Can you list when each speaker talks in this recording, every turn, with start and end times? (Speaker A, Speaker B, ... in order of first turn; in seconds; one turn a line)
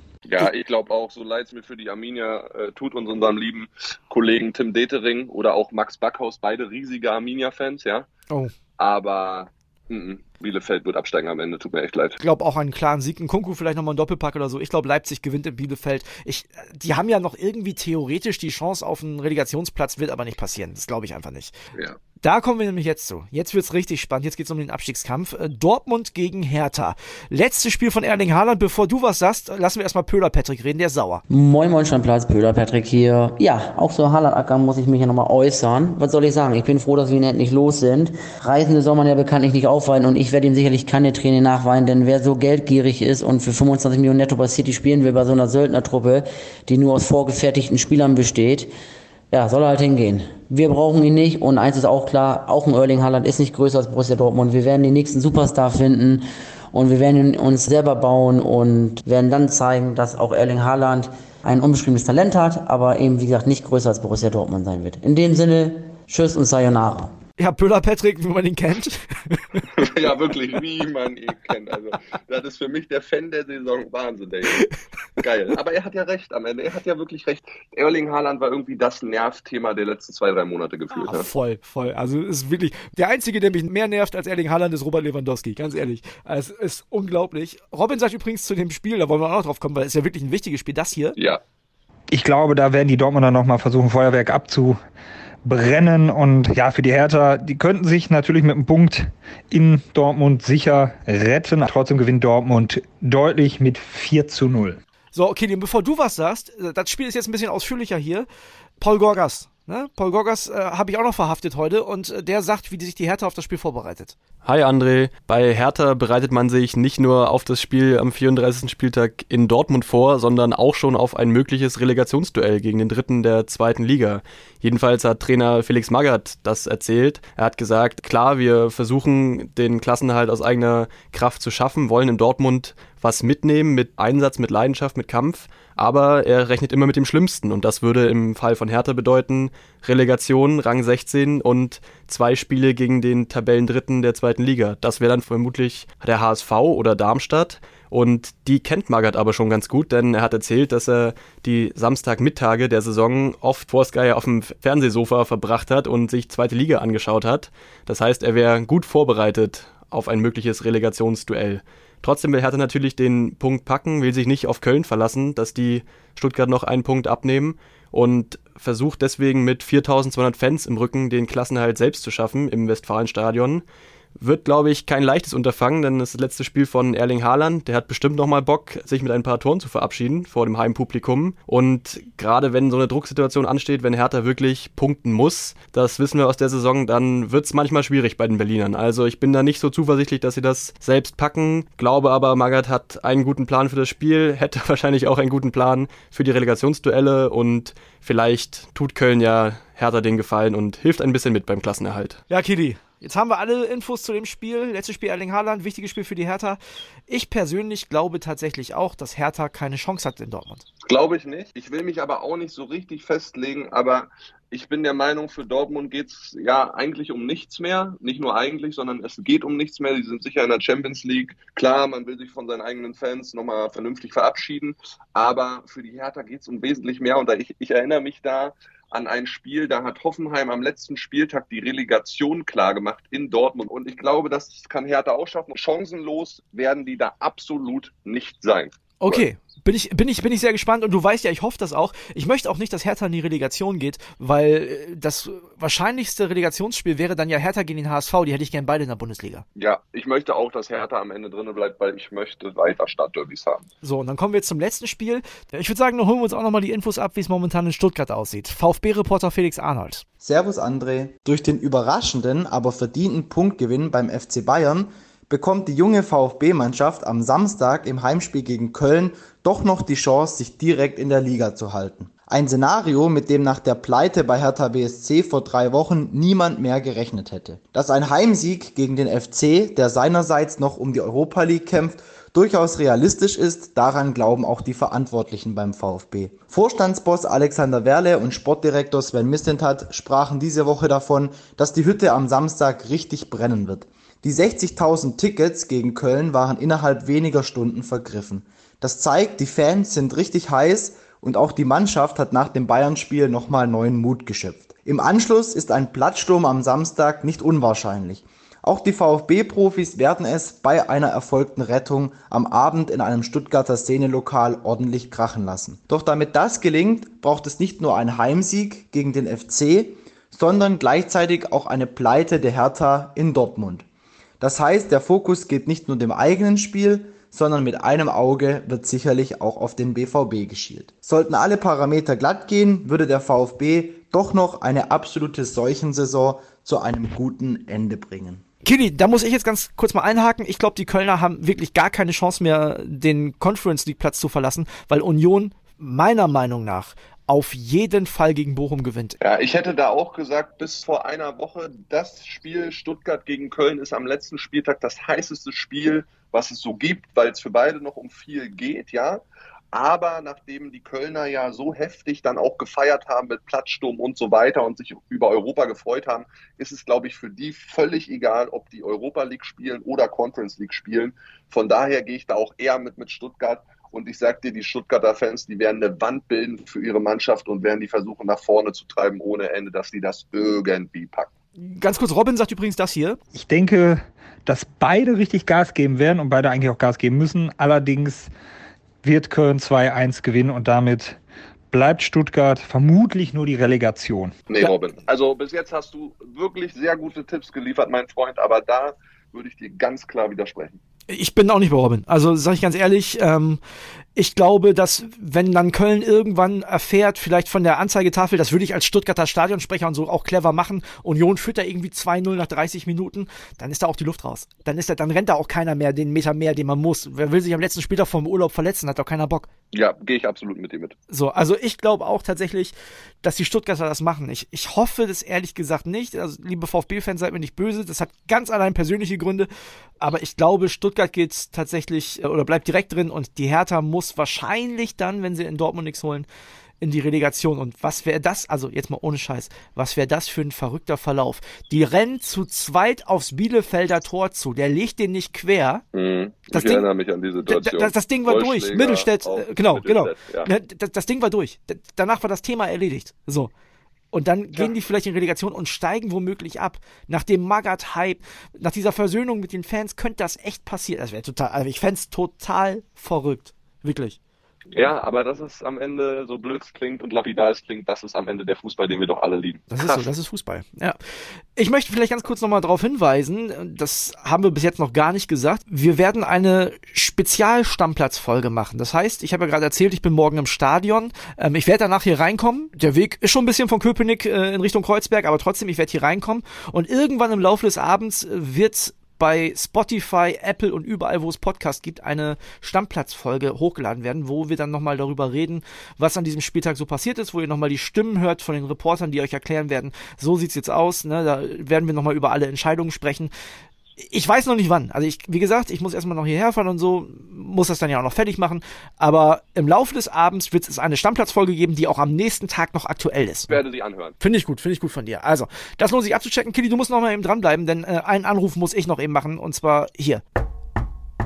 Speaker A: 0.3-8.1
Speaker A: 8.8-12.2
Speaker B: 12.2-21.5
Speaker B: 22.2-31.2
Speaker C: 31.3-48.7
Speaker C: 49.3-67.1
Speaker B: 67.4-69.6
Speaker A: 69.8-74.7
Speaker A: 75.2-81.3
Speaker B: 80.9-91.2
Speaker D: 92.1-94.8
Speaker D: 95.4-104.8
Speaker B: 105.1-108.3
Speaker B: 108.8-114.1
Speaker E: 114.4-173.6
Speaker E: 174.2-202.2
Speaker B: 202.3-210.6
Speaker A: 210.8-239.2
Speaker B: 239.0-249.4
Speaker A: 249.6-253.7
Speaker B: 253.8-260.0
Speaker F: 260.2-323.8
Speaker F: 324.4-338.4
Speaker B: 338.6-349.2
Speaker A: 349.2-381.3
Speaker B: 381.6-383.2
Speaker D: 383.3-388.3
Speaker D: 389.0-391.2
Speaker D: 391.7-394.3
Speaker A: 394.5-400.8
Speaker B: 401.1-403.6
Speaker B: 404.1-419.5
Speaker A: 419.7-420.9
Speaker B: 421.1-429.5
Speaker B: 430.0-436.3
Speaker B: 436.8-445.8
Speaker A: 445.9-450.5
Speaker B: 446.5-446.9
Speaker B: 447.5-453.5
Speaker B: 454.1-464.2
Speaker A: 464.7-470.1
Speaker B: 469.7-503.3
Speaker B: 504.0-513.6
Speaker A: 513.5-514.2
Speaker B: 514.2-520.2